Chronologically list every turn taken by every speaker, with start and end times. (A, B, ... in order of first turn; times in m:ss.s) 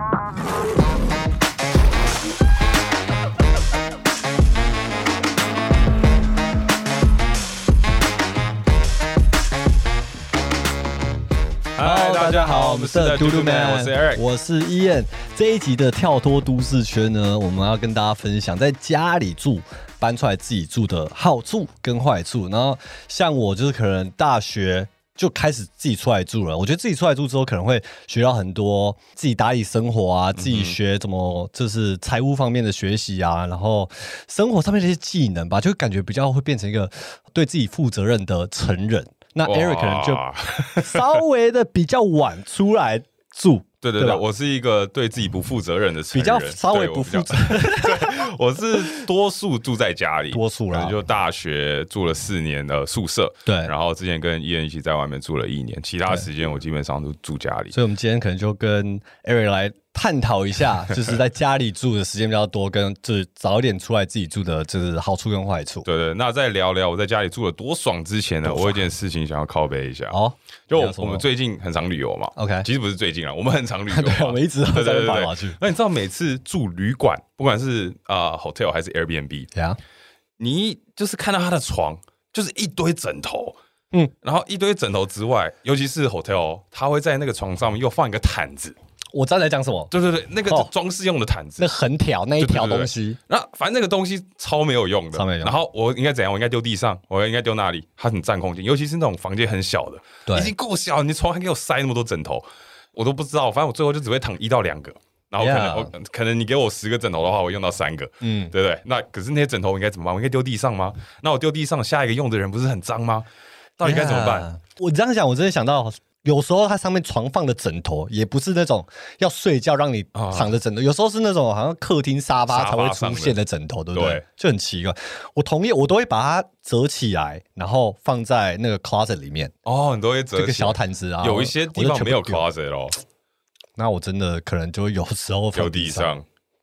0:11.8-0:14.2 A
0:11.8-0:40.2 B
0:30.4-0:30.8 A
0:39.5-0:41.2 A
0:40.8-0:44.2 B
0:43.8-0:57.8 A
0:46.1-0:48.3 B
0:50.3-0:51.0 B
0:53.5-0:53.7 B
0:57.7-1:05.9 B
1:05.8-1:10.2 A
1:08.4-1:08.8 B
1:10.1-1:11.2 B
1:10.7-1:19.5 A
1:12.4-1:12.7 B
1:13.9-1:15.6 B
1:20.4-1:23.6 A
1:24.2-1:28.8 A
1:29.1-1:29.9 B
1:29.9-1:31.7 A
1:30.4-1:30.7 B
1:31.6-1:33.2 B
1:32.4-1:53.3 A
1:35.1-1:35.6 B
1:40.3-1:40.5 B
1:45.4-1:45.9 B
1:48.2-1:48.5 B
1:53.8-1:54.5 A
1:53.8-2:09.5 B
2:00.2-2:00.6 A
2:02.5-2:03.4 A
2:03.9-2:04.2 A
2:09.6-2:13.0 A
2:10.4-2:12.5 B
2:13.8-2:16.2 B
2:15.5-2:16.3 A